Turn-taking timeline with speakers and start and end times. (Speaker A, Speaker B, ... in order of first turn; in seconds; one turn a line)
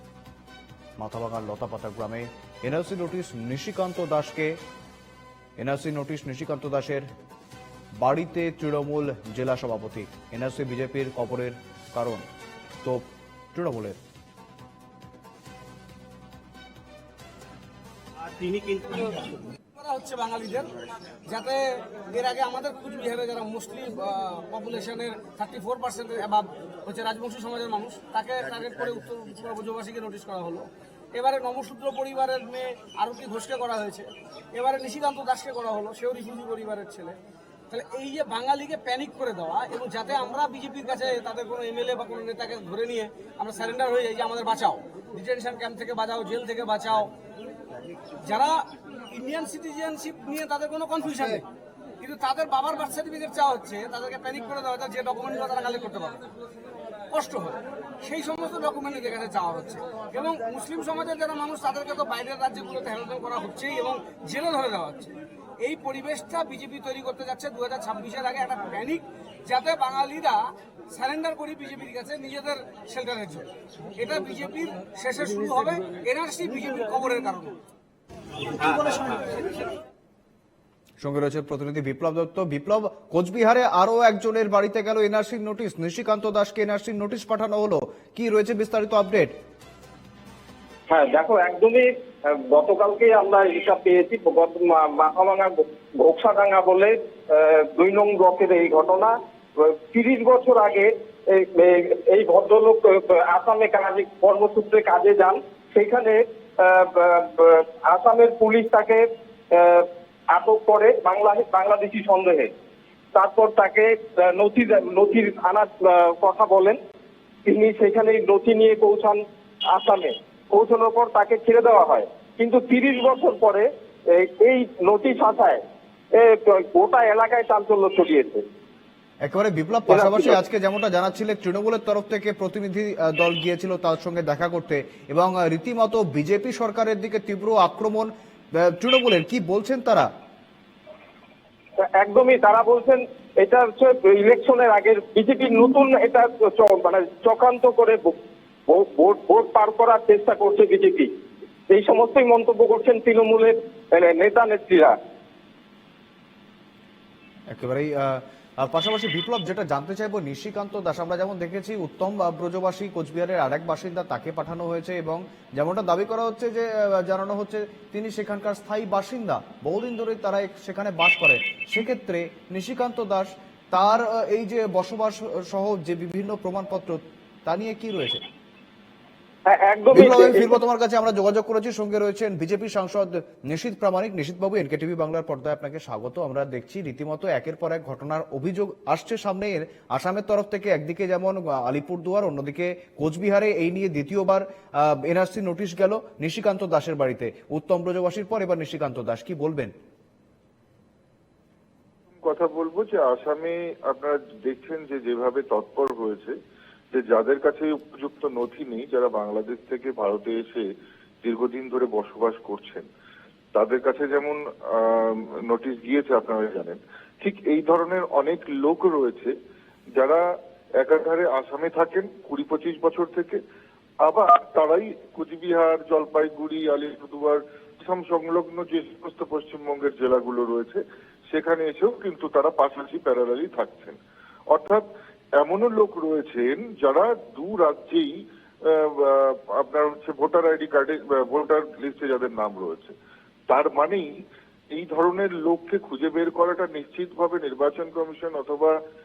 Speaker A: 1.0-4.6
Speaker A: 5.6-7.1
Speaker A: 8.0-12.2
Speaker A: 12.8-14.0
Speaker B: 18.4-19.1
Speaker B: 19.7-20.7
Speaker B: 21.3-37.2
Speaker B: 37.7-47.1
Speaker B: 48.2-51.4
Speaker B: 52.0-56.2
Speaker B: 57.1-77.6
Speaker B: 78.6-79.4
Speaker A: 81.0-89.3
Speaker C: 90.9-112.5
Speaker C: 113.1-116.8
Speaker C: 117.4-125.6
Speaker C: 126.1-128.4
Speaker A: 129.2-138.1
Speaker C: 129.9-130.4
Speaker A: 138.6-140.1
Speaker C: 141.8-151.1
Speaker C: 151.7-154.9
Speaker A: 157.5-178.2
Speaker C: 179.4-180.5
Speaker A: 179.9-199.7
Speaker D: 202.2-206.3
Speaker D: 206.9-210.7
Speaker D: 211.2-212.8
Speaker D: 213.5-219.3
Speaker D: 220.8-223.4
Speaker D: 224.0-233.9
Speaker D: 234.5-234.8
Speaker D: 235.4-238.1
Speaker D: 238.6-242.9
Speaker D: 243.5-244.1
Speaker D: 244.7-248.8